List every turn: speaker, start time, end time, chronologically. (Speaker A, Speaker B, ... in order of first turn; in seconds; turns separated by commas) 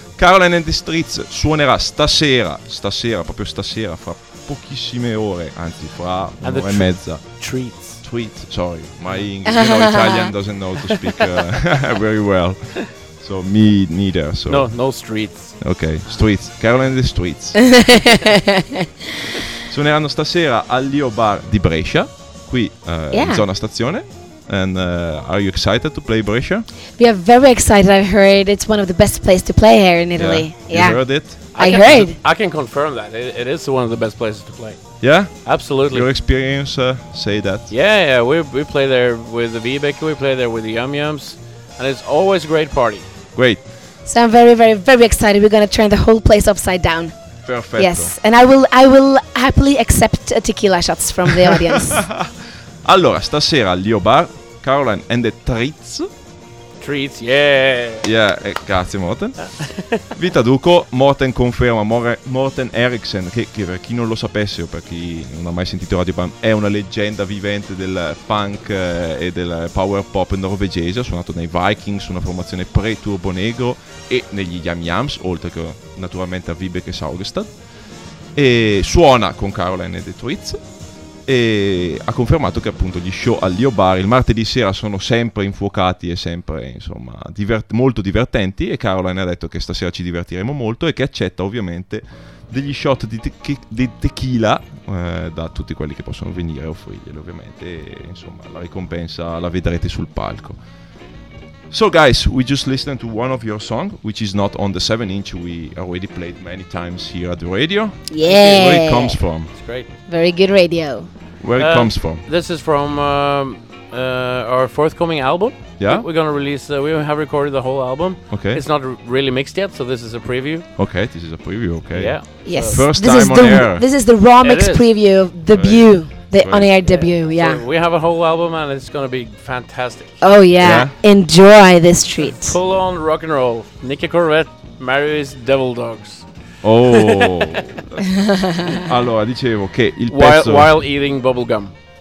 Speaker A: 0.2-18.0, Speaker B: 6.4-8.0, Speaker C: 9.4-10.3, Speaker B: 14.5-15.9, Speaker A: 19.6-26.6, Speaker C: 23.1-23.4, Speaker C: 27.0-32.1, Speaker A: 30.1-31.4, Speaker B: 31.5-36.1, Speaker A: 35.0-37.7, Speaker B: 37.7-43.1, Speaker A: 43.3-43.6, Speaker C: 44.0-52.0, Speaker A: 47.4-48.2, Speaker A: 51.9-56.1, Speaker B: 56.8-58.1, Speaker A: 58.0-100.8, Speaker A: 101.7-109.5, Speaker C: 108.1-111.1, Speaker B: 108.2-108.7, Speaker B: 109.5-109.9, Speaker A: 111.4-112.2, Speaker B: 111.6-120.7, Speaker A: 115.8-116.0, Speaker A: 118.3-118.6, Speaker A: 120.8-123.8, Speaker B: 121.9-122.8, Speaker C: 122.4-127.6, Speaker B: 124.4-124.9, Speaker A: 125.5-126.7, Speaker B: 126.8-130.3, Speaker C: 130.2-132.6, Speaker A: 130.6-130.9, Speaker B: 132.2-136.7, Speaker A: 136.6-140.7, Speaker B: 140.1-141.7